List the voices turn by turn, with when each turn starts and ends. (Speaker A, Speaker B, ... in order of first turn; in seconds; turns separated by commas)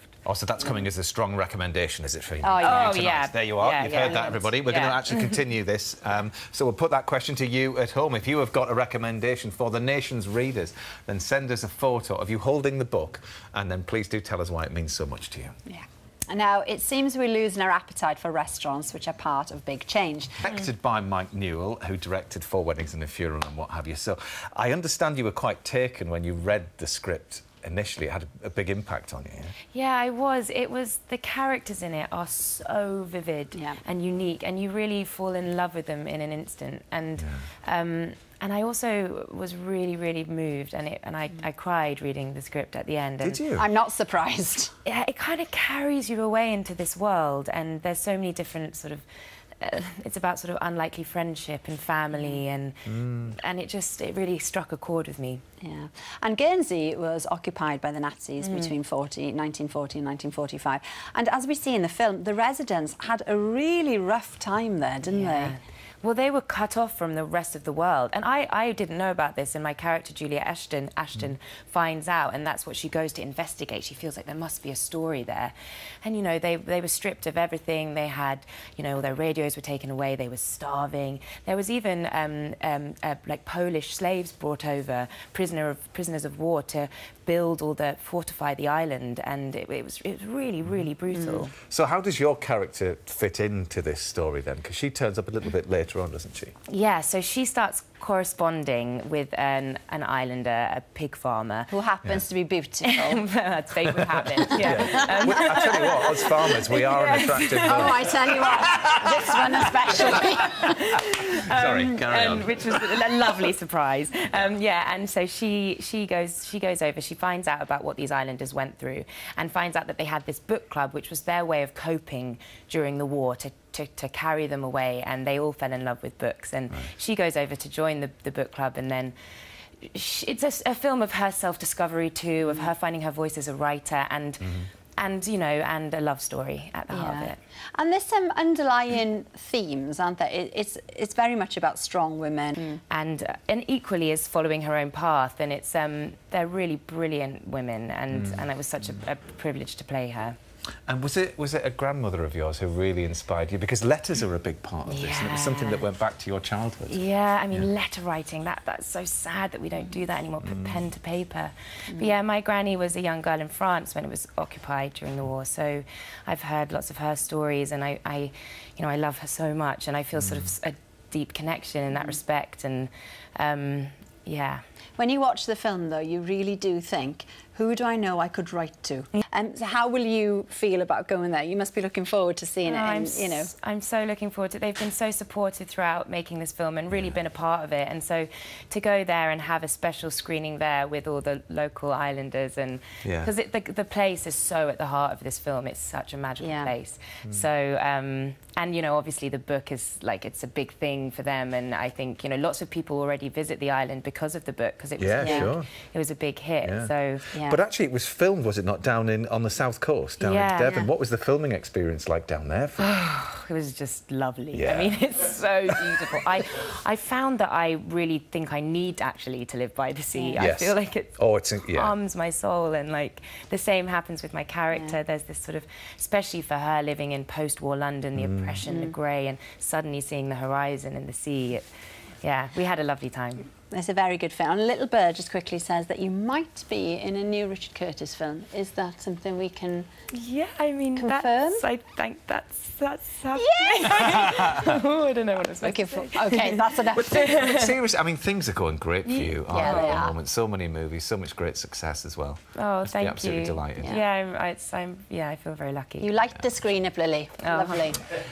Speaker A: 0.2-15.6, Speaker B: 2.4-3.0, Speaker C: 2.6-5.4, Speaker B: 15.7-20.4, Speaker A: 20.4-29.5, Speaker C: 29.7-43.5, Speaker A: 43.2-43.7, Speaker B: 43.6-44.7, Speaker C: 44.9-49.0, Speaker C: 49.6-55.4, Speaker A: 52.9-53.3, Speaker B: 55.6-65.6, Speaker C: 58.4-58.7, Speaker C: 65.1-91.6, Speaker B: 91.1-91.4, Speaker A: 91.6-96.5, Speaker C: 96.7-101.7, Speaker B: 101.7-103.2, Speaker C: 102.9-108.1, Speaker A: 103.8-109.0, Speaker B: 104.6-105.6, Speaker B: 107.1-110.8, Speaker C: 110.3-129.1, Speaker A: 111.5-113.1, Speaker C: 129.8-137.4, Speaker B: 132.4-132.7, Speaker A: 134.4-134.7, Speaker B: 136.9-142.8, Speaker C: 142.9-150.4, Speaker A: 148.1-148.5, Speaker A: 150.9-157.7, Speaker C: 154.9-155.8, Speaker C: 156.9-174.6, Speaker A: 160.4-160.8, Speaker B: 175.0-183.5, Speaker C: 182.7-207.4, Speaker A: 193.0-193.3, Speaker B: 196.4-196.7, Speaker A: 205.0-205.7, Speaker B: 205.2-205.5, Speaker A: 206.6-212.9, Speaker B: 207.3-207.6, Speaker C: 210.2-210.9, Speaker C: 212.8-231.7, Speaker A: 214.5-214.9, Speaker B: 220.1-220.4, Speaker A: 220.4-221.9, Speaker A: 228.2-228.6, Speaker B: 228.7-228.9, Speaker C: 232.2-233.5, Speaker B: 233.7-239.9, Speaker C: 240.1-247.8, Speaker B: 241.0-241.7, Speaker B: 243.3-244.0, Speaker A: 244.0-244.4, Speaker B: 245.6-247.6, Speaker A: 246.9-254.0, Speaker C: 249.1-250.1, Speaker B: 249.3-250.2, Speaker C: 252.6-256.1, Speaker B: 256.0-258.0, Speaker C: 257.4-257.9